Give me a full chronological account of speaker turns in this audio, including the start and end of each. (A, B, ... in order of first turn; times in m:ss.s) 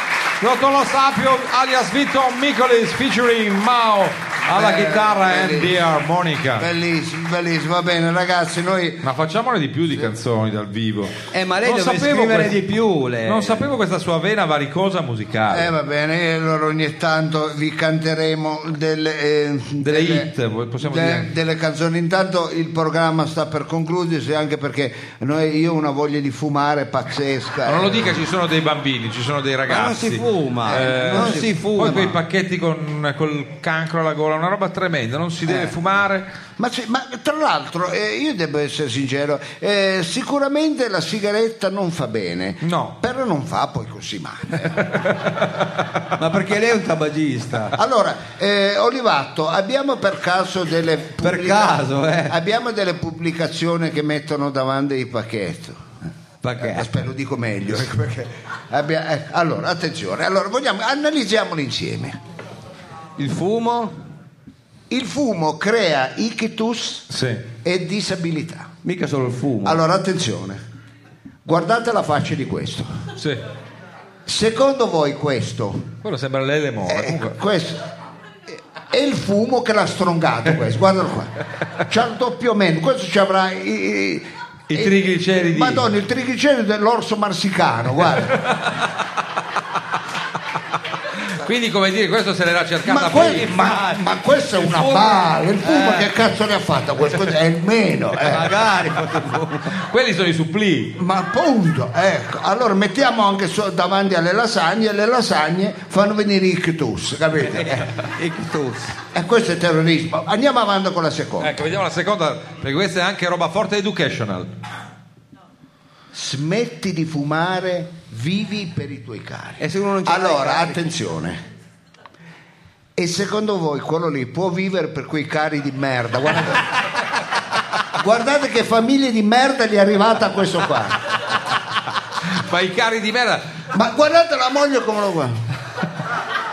0:00.4-0:06.7 A
0:04.5-0:05.9 B
0:06.6-0:09.1 B
0:09.0-0:12.6 A
0:11.3-0:13.7 C
0:13.2-0:15.7 A
0:15.5-0:20.3 B
0:19.8-0:21.3 A
0:20.8-0:28.2 B
0:27.7-0:36.3 A
0:29.7-0:32.2 C
0:30.7-0:31.5 B
0:36.6-0:44.9 B
0:42.6-0:43.0 A
0:44.9-0:45.5 A
0:46.2-0:47.8 C
0:47.7-0:55.8 B
0:51.2-0:52.4 C
0:56.4-0:56.9 C
0:56.6-1:02.2 B
1:03.2-1:03.9 C
1:04.9-1:08.7 B
1:07.1-1:07.4 A
1:08.8-1:09.8 C
1:09.6-1:10.6 B
1:11.4-1:12.9 B
1:14.3-1:15.9 B
1:16.0-1:17.4 A
1:16.9-1:17.8 B
1:18.9-1:28.4 B
1:24.7-1:25.8 A
1:28.4-1:28.8 A
1:31.4-1:33.7 A
1:32.9-1:38.5 B
1:33.5-1:34.0 C
1:35.1-1:36.0 C
1:38.2-1:39.8 C
1:39.8-1:41.0 A
1:41.0-1:47.9 B
1:47.6-1:49.0 C
1:49.1-1:51.6 B
1:51.4-1:54.5 A
1:56.1-2:01.4 B
1:59.6-2:00.8 C
2:03.0-2:06.8 B
2:07.9-2:11.0 B
2:12.3-2:13.5 A
2:13.7-2:15.4 B